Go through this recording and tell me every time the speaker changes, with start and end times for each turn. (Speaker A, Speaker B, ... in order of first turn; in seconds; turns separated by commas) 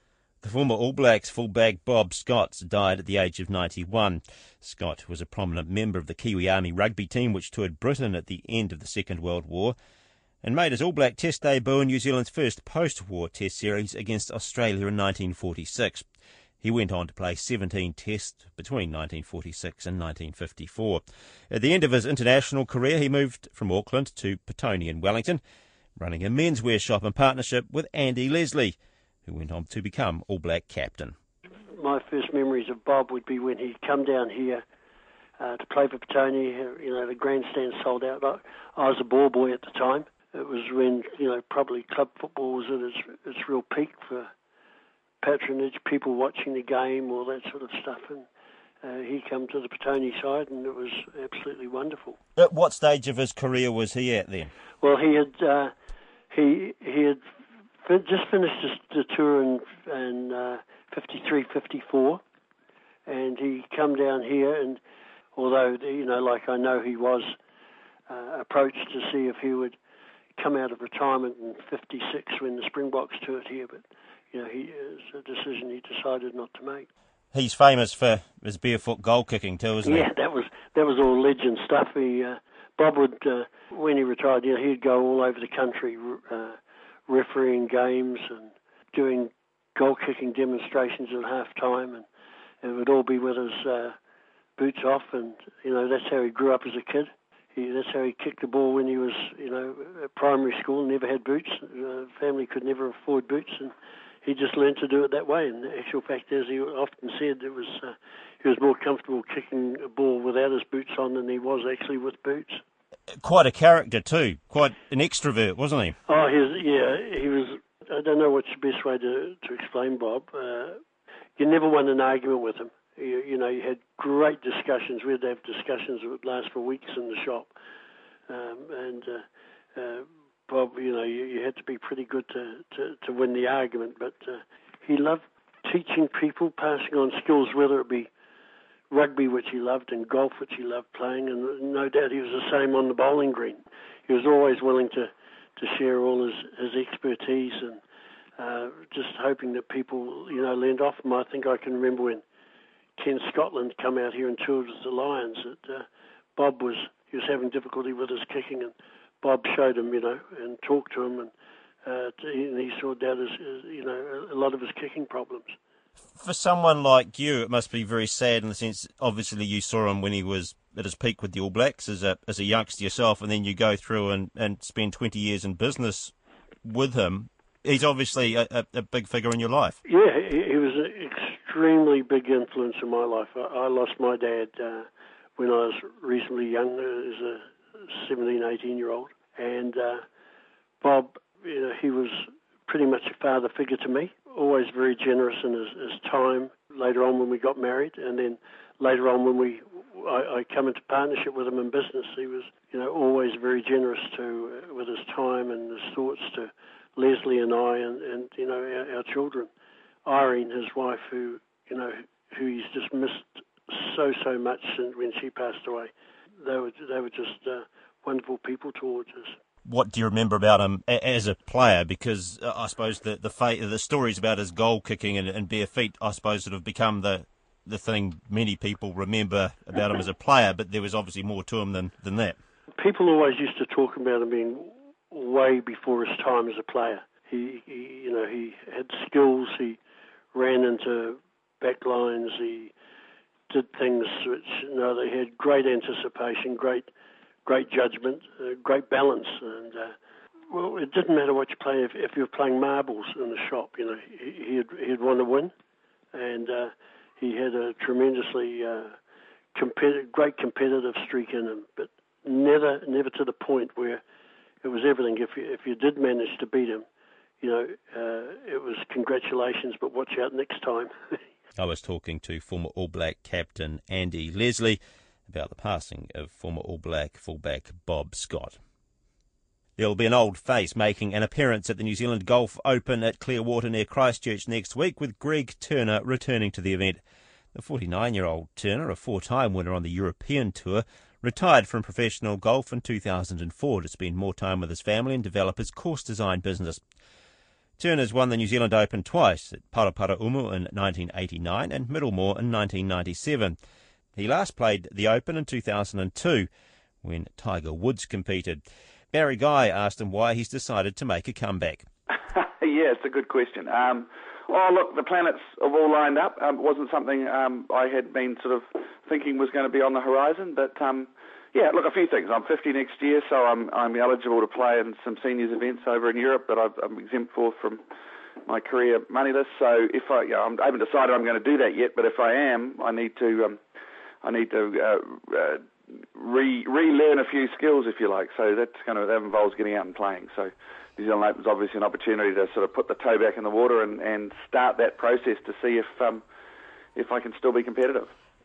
Speaker A: 0.4-9.8, Speaker A: 10.4-16.1, Speaker A: 16.6-25.4, Speaker A: 26.0-31.1, Speaker B: 31.7-34.6, Speaker B: 35.4-44.3, Speaker B: 45.2-48.3, Speaker B: 48.8-52.2, Speaker A: 52.4-54.5, Speaker B: 54.8-55.7, Speaker B: 56.3-57.2, Speaker B: 57.8-62.2, Speaker B: 63.1-64.8, Speaker B: 65.3-67.4, Speaker B: 68.1-69.8, Speaker B: 70.4-76.9, Speaker A: 77.3-80.1, Speaker B: 79.8-86.6, Speaker B: 87.1-92.1, Speaker B: 92.6-94.0, Speaker B: 94.6-112.6, Speaker A: 113.2-116.0, Speaker B: 116.1-120.8, Speaker B: 121.4-127.5, Speaker B: 128.3-138.1, Speaker B: 138.9-147.8, Speaker B: 148.4-152.2, Speaker B: 153.0-161.3, Speaker B: 161.8-165.6, Speaker A: 166.2-176.1, Speaker A: 176.7-179.8, Speaker B: 179.9-190.1, Speaker B: 190.8-209.5, Speaker B: 210.1-219.4, Speaker A: 219.7-232.4, Speaker B: 232.8-239.8, Speaker B: 240.3-242.7, Speaker B: 243.5-246.9, Speaker B: 247.4-249.9, Speaker B: 250.5-255.5, Speaker B: 256.1-258.9, Speaker B: 259.5-264.0, Speaker B: 264.6-266.9, Speaker B: 267.4-271.2, Speaker A: 271.6-278.6, Speaker A: 279.8-287.0, Speaker A: 287.5-296.8, Speaker A: 297.8-303.6, Speaker A: 304.1-306.5, Speaker A: 307.0-311.9, Speaker C: 312.3-327.8, Speaker C: 328.5-333.6, Speaker C: 334.2-335.6, Speaker C: 336.1-346.2, Speaker C: 347.0-348.1